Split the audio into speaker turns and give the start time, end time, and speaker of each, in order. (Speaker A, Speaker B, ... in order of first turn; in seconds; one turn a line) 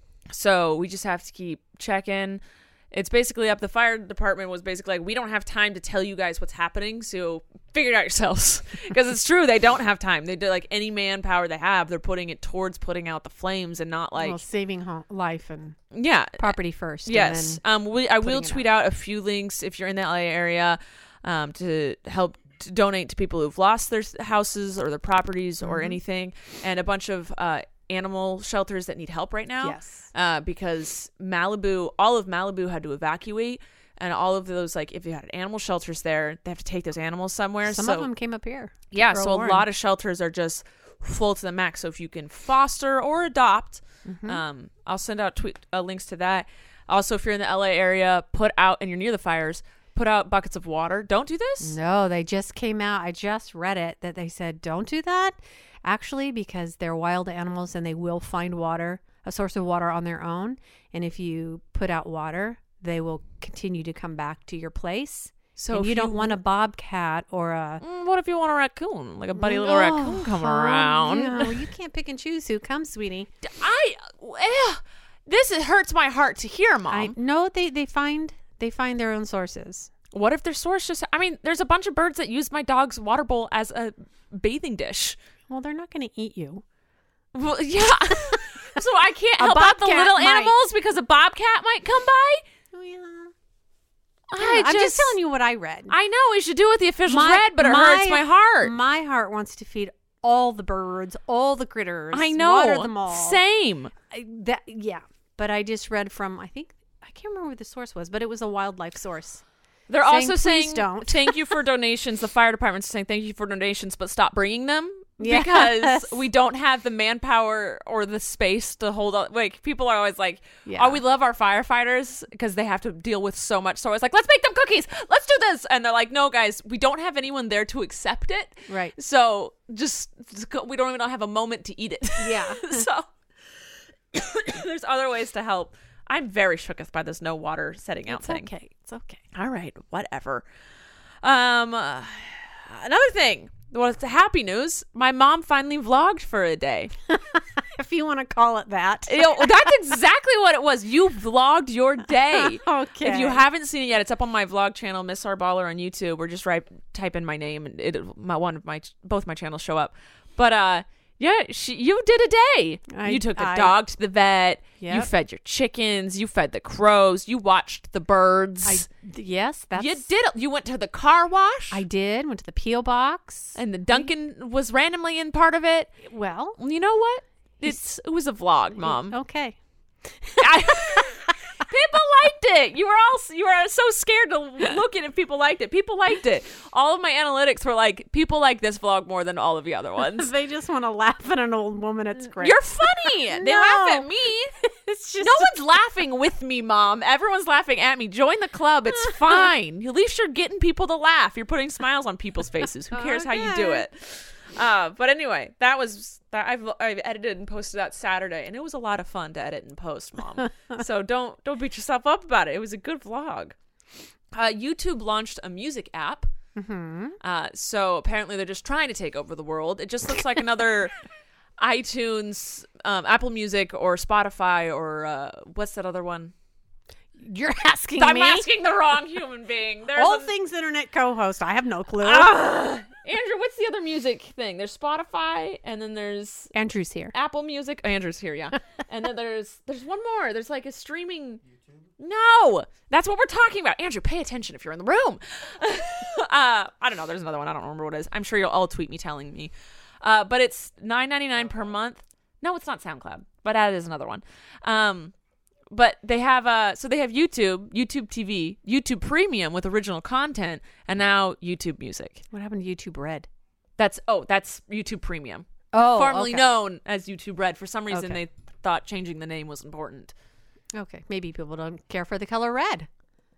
Speaker A: 0.3-14.4
Speaker B: 14.2-15.8
Speaker A: 15.9-16.5
Speaker B: 16.4-17.6
Speaker A: 17.0-38.1
Speaker B: 18.2-18.6
Speaker B: 25.6-26.0
Speaker B: 29.6-30.1
Speaker B: 37.6-39.6
Speaker A: 38.9-51.7
Speaker B: 44.0-44.4
Speaker B: 51.6-67.8
Speaker A: 65.6-66.4
Speaker A: 67.8-71.5
Speaker B: 69.3-73.3
Speaker A: 73.4-77.1
Speaker B: 76.9-79.9
Speaker A: 80.1-85.2
Speaker B: 85.5-86.6
Speaker A: 87.3-92.4
Speaker B: 88.1-88.4
Speaker B: 89.4-90.5
Speaker B: 92.7-93.3
Speaker A: 94.3-95.2
Speaker B: 94.3-95.9
Speaker A: 95.9-98.8
Speaker B: 97.1-103.4
Speaker A: 102.1-103.9
Speaker B: 104.1-109.4
Speaker A: 109.9-133.1
Speaker B: 110.0-111.5
Speaker B: 115.2-116.2
Speaker B: 120.7-121.0
Speaker B: 128.7-128.9
Speaker B: 132.2-132.8
Speaker A: 134.1-138.5
Speaker B: 138.1-139.2
Speaker A: 139.3-140.4
Speaker A: 141.2-146.9
Speaker B: 147.1-149.7
Speaker A: 149.1-168.8
Speaker B: 152.2-153.4
Speaker B: 162.9-163.8
Speaker B: 164.8-165.1
Speaker B: 168.6-170.0
Speaker A: 169.8-171.8
Speaker B: 171.7-174.1
Speaker A: 173.5-176.1
Speaker B: 176.0-176.6
Speaker A: 176.6-179.2
Speaker B: 178.8-181.2
Speaker A: 180.4-190.3
Speaker B: 190.1-194.1
Speaker A: 192.3-194.5
Speaker B: 194.6-195.5
Speaker A: 195.2-213.5
Speaker B: 202.9-203.8
Speaker A: 214.3-216.3
Speaker B: 216.6-217.2
Speaker A: 217.2-220.9
Speaker A: 221.6-226.3
Speaker B: 227.2-228.5
Speaker A: 228.0-230.3
Speaker B: 229.9-232.3
Speaker A: 232.0-236.5
Speaker B: 236.5-237.1
Speaker A: 237.1-241.4
Speaker A: 242.0-255.1
Speaker A: 255.7-262.2
Speaker B: 262.3-263.3
Speaker A: 263.8-270.1
Speaker B: 265.7-266.5
Speaker B: 267.9-268.2
Speaker B: 270.7-272.9